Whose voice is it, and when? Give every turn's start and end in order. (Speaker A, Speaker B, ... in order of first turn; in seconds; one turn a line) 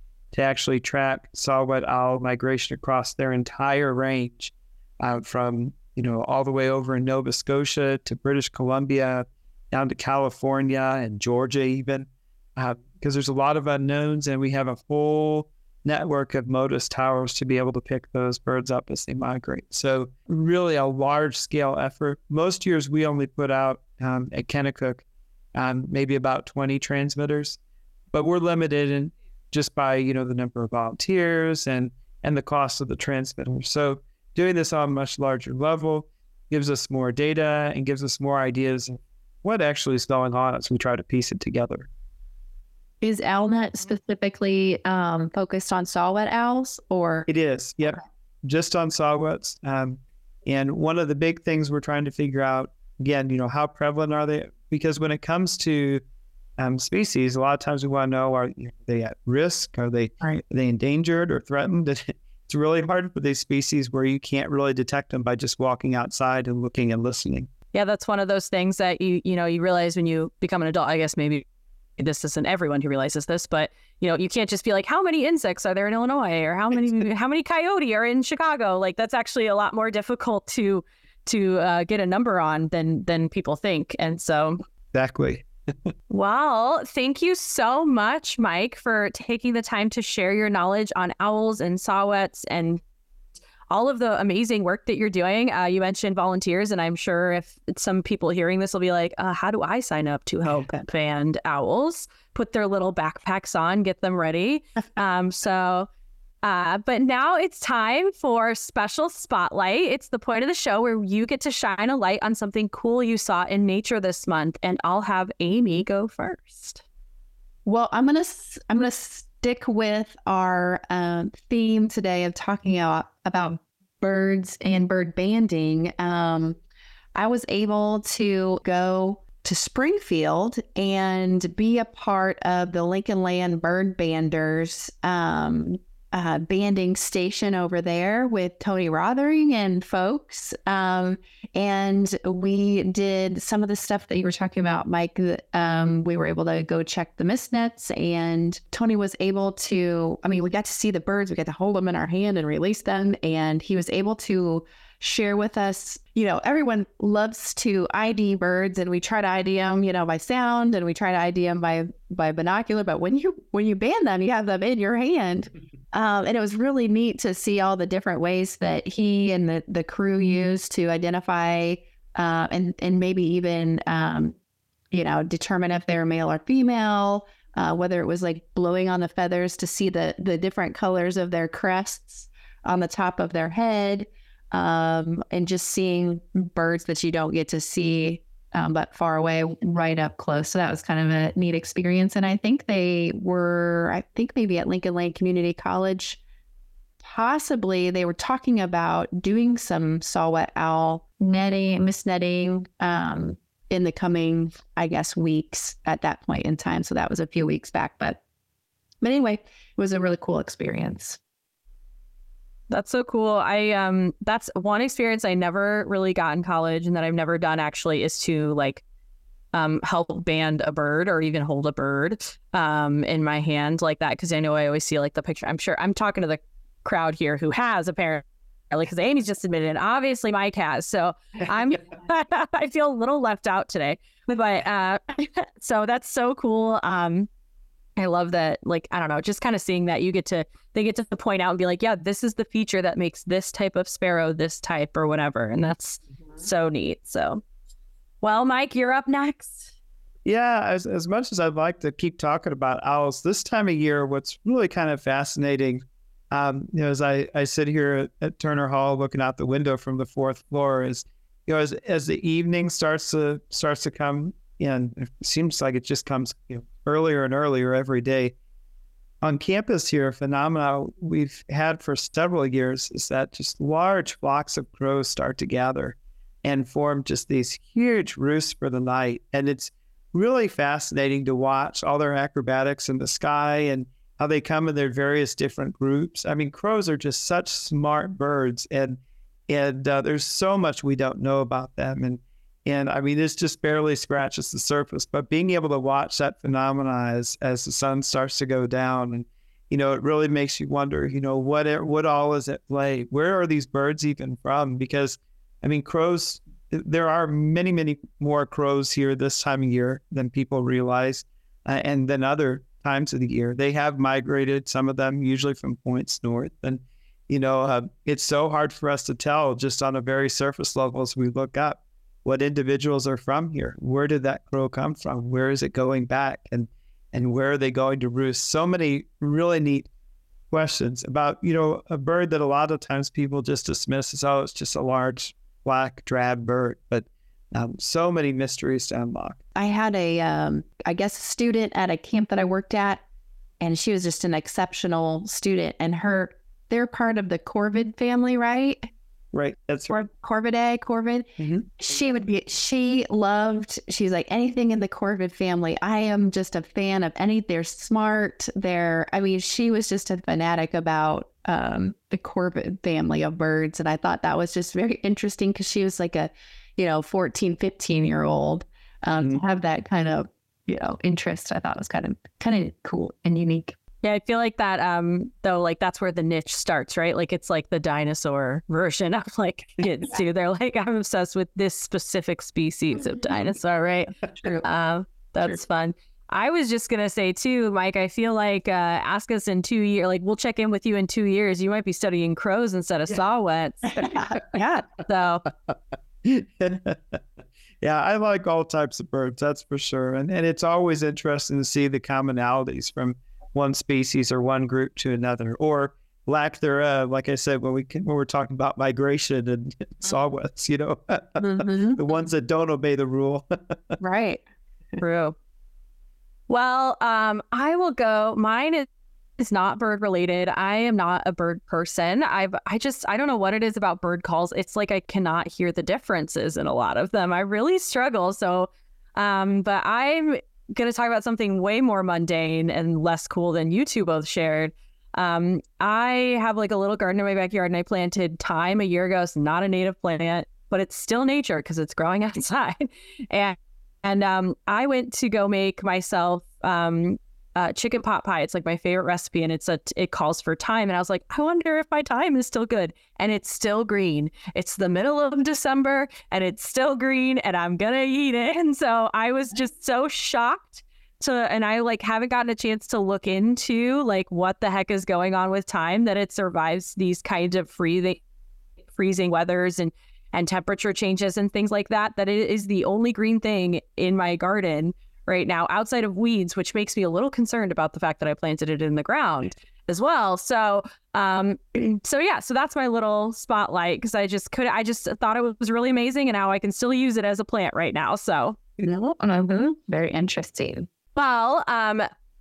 Speaker A: 0.3-25.1
Speaker A: 25.6-27.6
Speaker A: 28.1-41.9
Speaker B: 43.0-47.3
Speaker A: 47.3-56.0
Speaker A: 56.6-67.5
Speaker C: 67.7-71.5
Speaker C: 72.0-84.6
Speaker A: 84.9-85.5
Speaker C: 86.1-92.8
Speaker C: 93.7-105.9
Speaker C: 106.4-116.8
Speaker B: 117.7-126.6
Speaker B: 127.1-174.3
Speaker B: 174.9-196.2
Speaker B: 197.0-208.2
Speaker B: 209.0-211.2
Speaker C: 212.7-218.8
Speaker C: 219.5-237.3
Speaker C: 238.0-247.4
Speaker C: 248.2-249.7
Speaker A: 250.2-268.4
Speaker A: 269.2-329.9
Speaker A: 330.5-339.4
Speaker B: 339.6-343.0
Speaker B: 343.6-348.9
Speaker A: 349.3-350.0
Speaker B: 349.9-373.8
Speaker A: 351.4-351.7
Speaker C: 374.0-394.1
Speaker B: 393.9-394.9
Speaker C: 395.0-395.4
Speaker A: 396.2-397.2
Speaker A: 397.8-414.0
Speaker B: 411.4-412.0
Speaker B: 414.0-414.4
Speaker C: 415.0-415.4
Speaker C: 416.5-418.9
Speaker C: 419.4-468.2
Speaker C: 468.9-488.6
Speaker B: 488.8-490.9
Speaker C: 491.2-492.1